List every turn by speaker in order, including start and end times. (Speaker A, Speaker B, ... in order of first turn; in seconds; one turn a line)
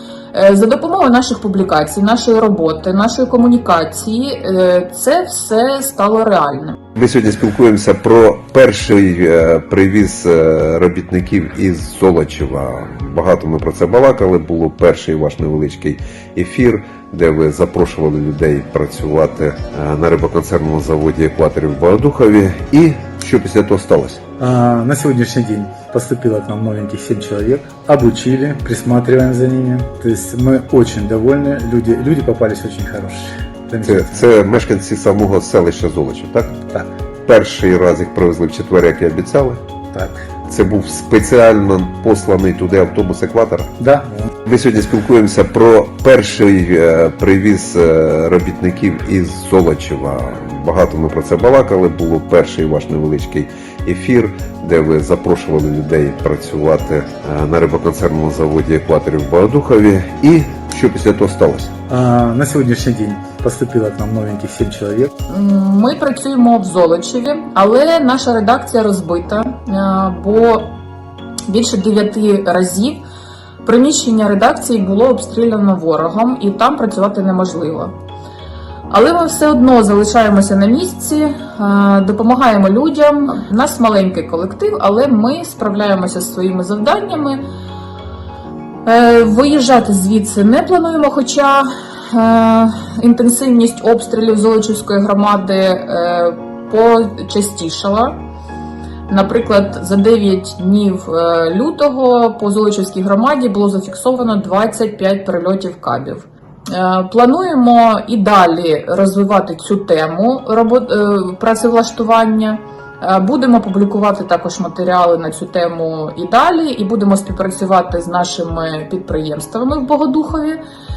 Speaker A: 0.3-6.8
Speaker B: 7.0-24.2
Speaker C: 24.4-34.3
Speaker B: 33.8-36.6
Speaker B: 37.3-39.6
Speaker C: 39.9-40.2
Speaker B: 40.5-43.7
Speaker C: 43.8-44.3
Speaker B: 44.5-61.7
Speaker C: 61.9-65.1
Speaker A: 65.3-70.7
Speaker A: 71.5-73.0
Speaker A: 73.6-77.9
Speaker A: 78.9-87.4
Speaker A: 88.8-98.2
Speaker A: 99.1-120.6